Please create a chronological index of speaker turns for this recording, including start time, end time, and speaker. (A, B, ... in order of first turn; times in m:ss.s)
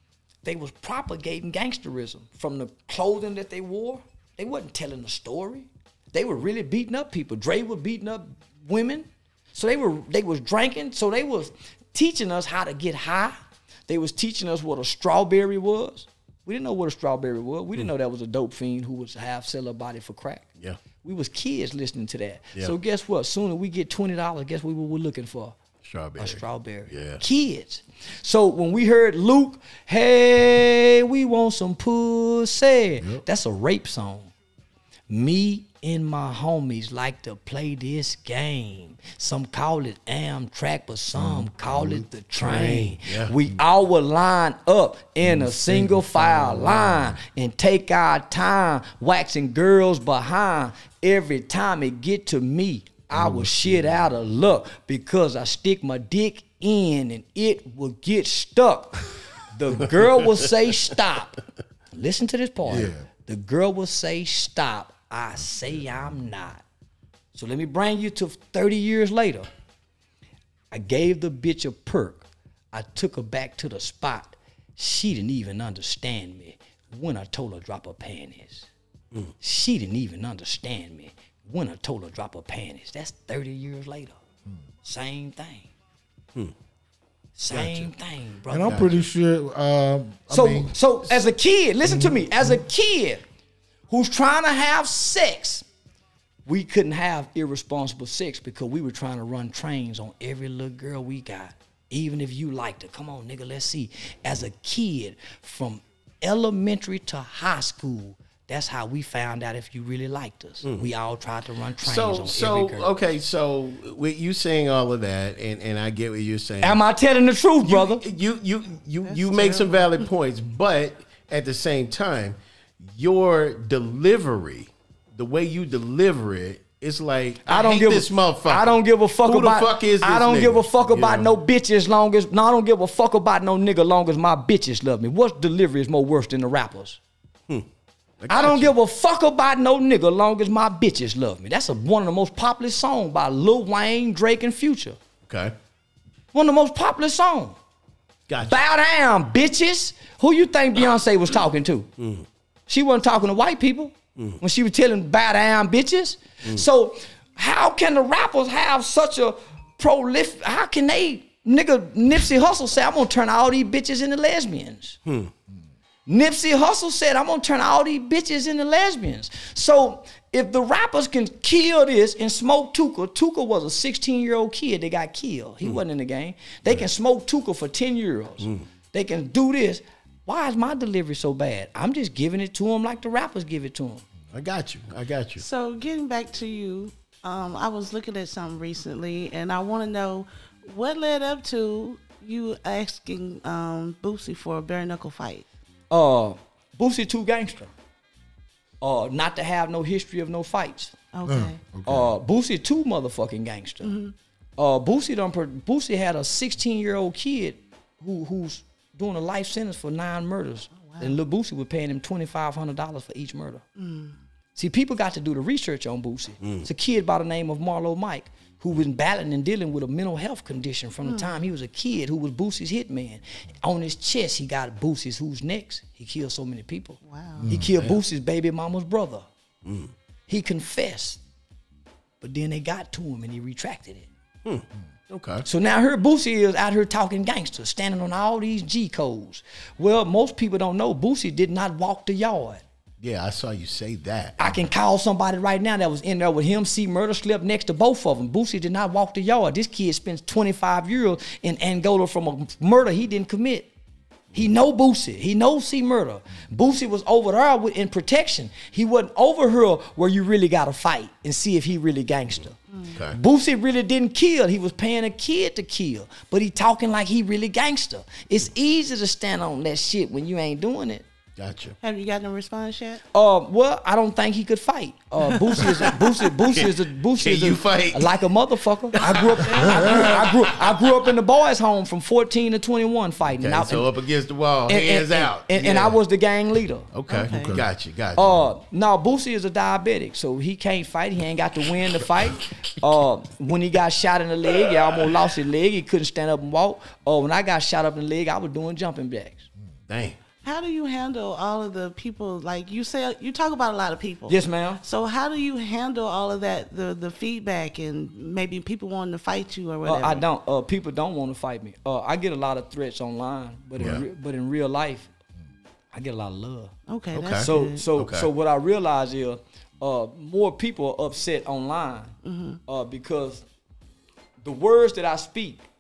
0:00.4-0:20.5 A
0:21.0-0:25.6 A
0:25.8-0:27.2 B
0:26.2-0:34.3 A
0:35.1-1:01.4 A
0:41.2-0:42.0 C
0:42.4-0:43.3 B
0:45.2-0:47.2 C
0:53.1-0:54.0 C
1:01.9-1:06.6 A
1:02.7-1:03.0 C
1:07.3-1:09.5 A
1:10.7-1:18.7 A
1:19.4-1:24.2 A
1:24.8-1:25.7 A
1:27.4-1:29.0 A
1:28.5-1:30.8 C
1:28.7-1:29.0 B
1:30.3-1:33.2 A
1:31.9-1:32.6 C
1:33.9-1:35.7 A
1:36.5-1:52.9 A
1:51.8-1:56.8 B
1:56.6-1:58.0 A
1:57.6-2:11.3 B
1:59.1-2:00.1 D
2:07.5-2:17.0 A
2:18.2-2:18.7 B
2:18.3-2:25.0 A
2:25.3-2:25.6 B
2:26.3-2:27.6 A
2:28.3-2:28.6 B
2:28.5-2:31.9 A
2:32.0-2:32.3 B
2:32.7-2:45.0 A
2:45.1-2:45.3 B
2:46.1-3:04.0 A
3:04.3-3:05.4 B
3:05.4-3:15.5 D
3:15.9-3:17.7 A
3:18.8-3:21.0 A
3:21.1-3:21.6 D
3:21.2-3:22.1 C
3:21.9-3:24.0 A
3:23.8-3:24.2 D
3:24.6-3:33.6 A
3:30.8-3:31.2 D
3:33.8-3:34.2 D
3:34.6-3:49.3 A
3:36.4-3:36.7 B
3:41.0-3:41.4 D
3:47.1-3:47.5 D
3:47.4-3:47.7 C
3:49.6-3:49.9 B
3:50.3-3:51.2 A
3:52.2-3:54.1 A
3:54.4-3:55.4 B
3:55.4-4:02.6 A
4:03.0-4:04.6 B
4:04.4-4:13.7 A
4:14.3-4:31.1 A
4:22.9-4:23.2 B
4:31.4-4:31.8 B
4:31.8-4:33.0 D
4:33.1-4:43.9 A
4:37.2-4:38.2 B
4:38.9-4:40.9 B
4:39.0-4:40.1 C
4:39.1-4:40.2 D
4:43.3-4:46.0 B
4:44.7-4:46.9 A
4:46.9-4:48.4 B
4:47.1-4:47.5 D
4:47.2-4:47.7 C
4:48.2-4:59.5 A
4:59.9-5:00.2 B
5:00.4-5:10.2 D
5:04.3-5:04.8 A
5:09.8-5:15.1 A
5:13.8-5:14.0 B
5:15.9-5:16.7 A
5:16.9-5:17.8 D
5:17.1-5:18.3 B
5:17.4-5:23.4 A
5:22.2-5:22.6 D
5:24.4-5:25.6 A